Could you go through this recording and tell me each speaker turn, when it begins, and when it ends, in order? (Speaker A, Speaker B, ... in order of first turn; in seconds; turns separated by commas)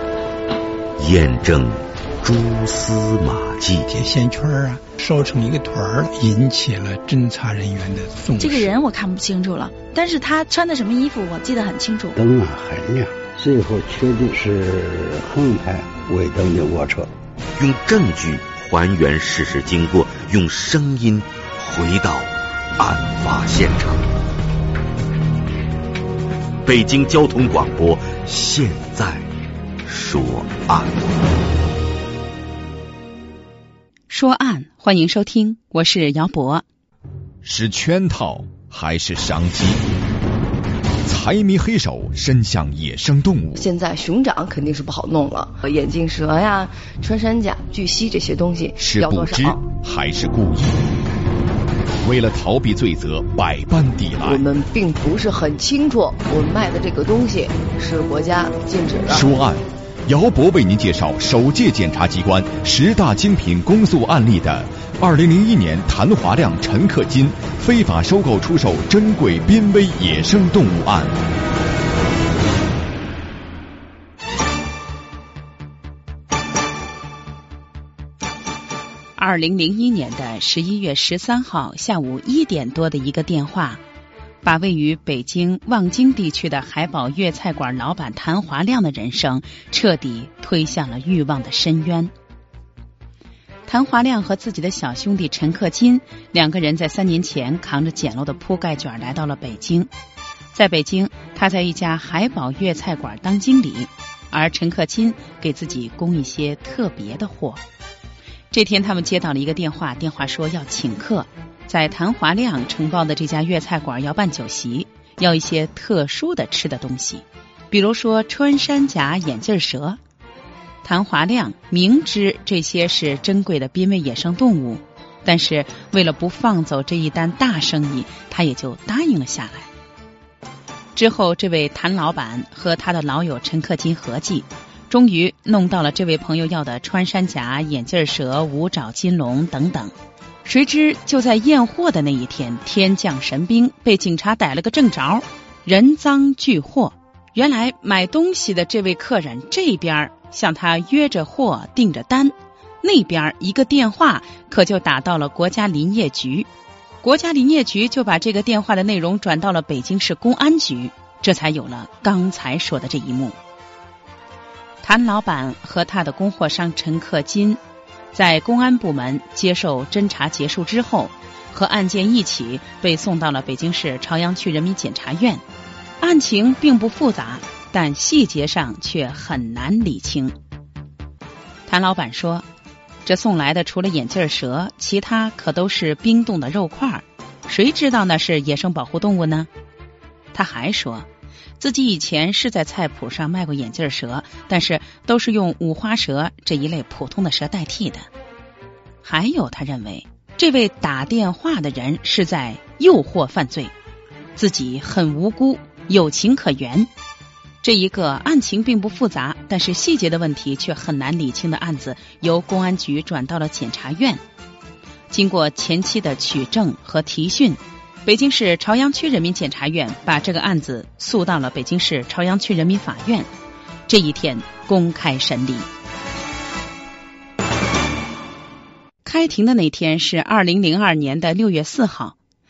Speaker A: 1.0-3.9, Speaker B: 3.9-8.7, Speaker C: 8.3-12.2, Speaker D: 12.2-17.1, Speaker A: 17.6-24.1, Speaker A: 26.6-29.3, Speaker A: 29.9-31.1, Speaker E: 34.1-36.6, Speaker F: 37.4-39.8, Speaker F: 41.0-43.6, Speaker G: 43.5-49.6, Speaker F: 48.8-50.9, Speaker F: 52.0-54.4, Speaker G: 54.2-59.3, Speaker F: 59.1-71.2, Speaker E: 79.2-83.8, Speaker E: 84.4-92.1, Speaker E: 93.7-99.9, Speaker E: 100.5-107.6, Speaker E: 108.5-120.0, Speaker E: 120.8-129.7, Speaker E: 130.9-139.9, Speaker E: 140.4-156.5, Speaker E: 157.0-163.4, Speaker E: 164.8-167.6, Speaker E: 168.1-175.4, Speaker E: 176.0-180.3, Speaker E: 181.7-182.5, Speaker E: 183.1-189.5, Speaker E: 190.3-191.1, Speaker E: 191.6-198.1, Speaker E: 199.0-203.7, Speaker E: 204.4-206.9, Speaker E: 207.6-214.2, Speaker E: 215.1-223.3, Speaker E: 223.9-225.7, Speaker E: 229.1-232.2